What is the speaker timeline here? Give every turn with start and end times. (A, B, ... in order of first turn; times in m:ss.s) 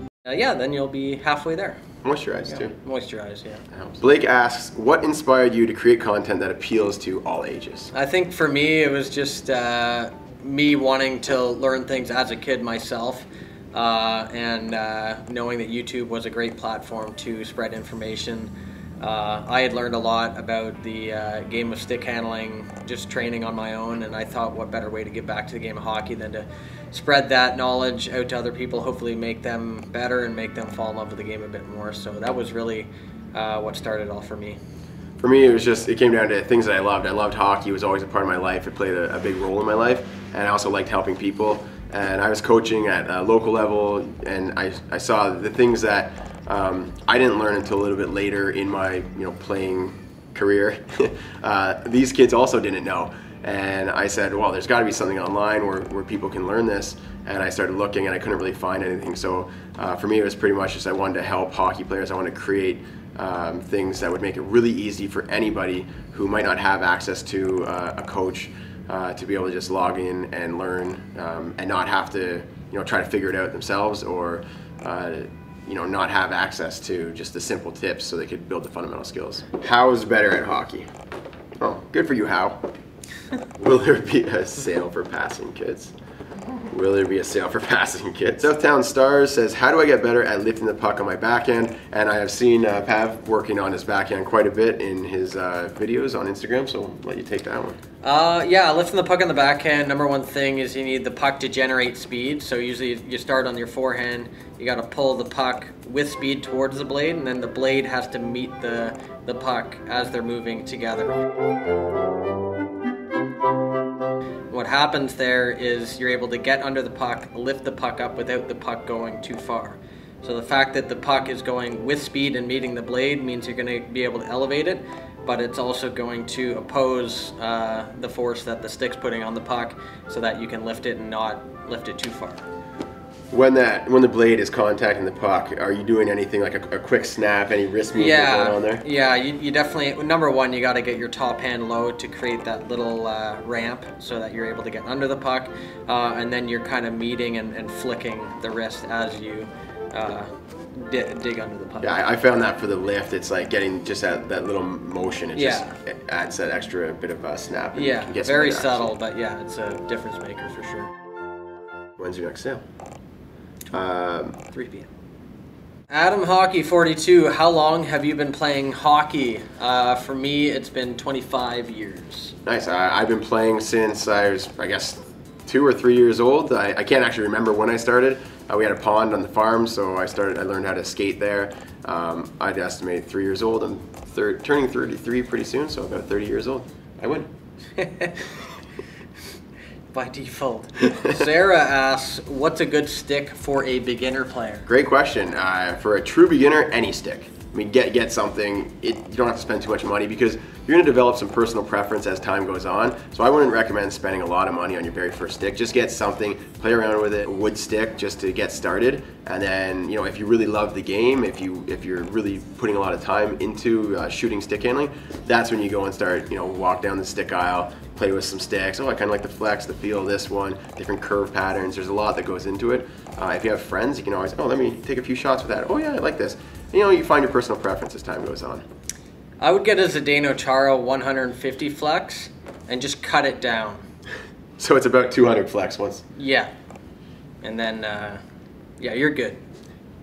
0:00.2-0:01.8 A
0:02.0-0:02.8 B
0:02.5-0:03.6 A
0:03.7-0:07.9 B
0:07.9-0:34.6 A
0:35.2-1:20.9 B
1:21.6-1:22.6 B
1:23.6-1:25.9 B
1:26.7-1:37.8 B
1:38.0-1:51.2 A
1:54.5-2:12.5 A
2:13.3-2:18.8 B
2:17.9-2:32.0 A
2:31.8-2:39.0 B
2:35.3-2:35.7 A
2:37.7-2:40.9 A
2:42.0-2:42.6 B
2:43.7-2:44.4 B
2:44.5-2:44.9 A
2:45.9-2:52.3 A
2:52.4-3:07.3 B
3:07.8-3:08.2 A
3:09.9-3:14.7 A
3:10.9-3:11.2 B
3:14.6-3:48.6 B
3:49.4-3:53.8 A
3:54.6-3:56.0 B
3:56.2-3:56.5 A
3:57.4-3:58.2 A
3:58.8-3:59.4 A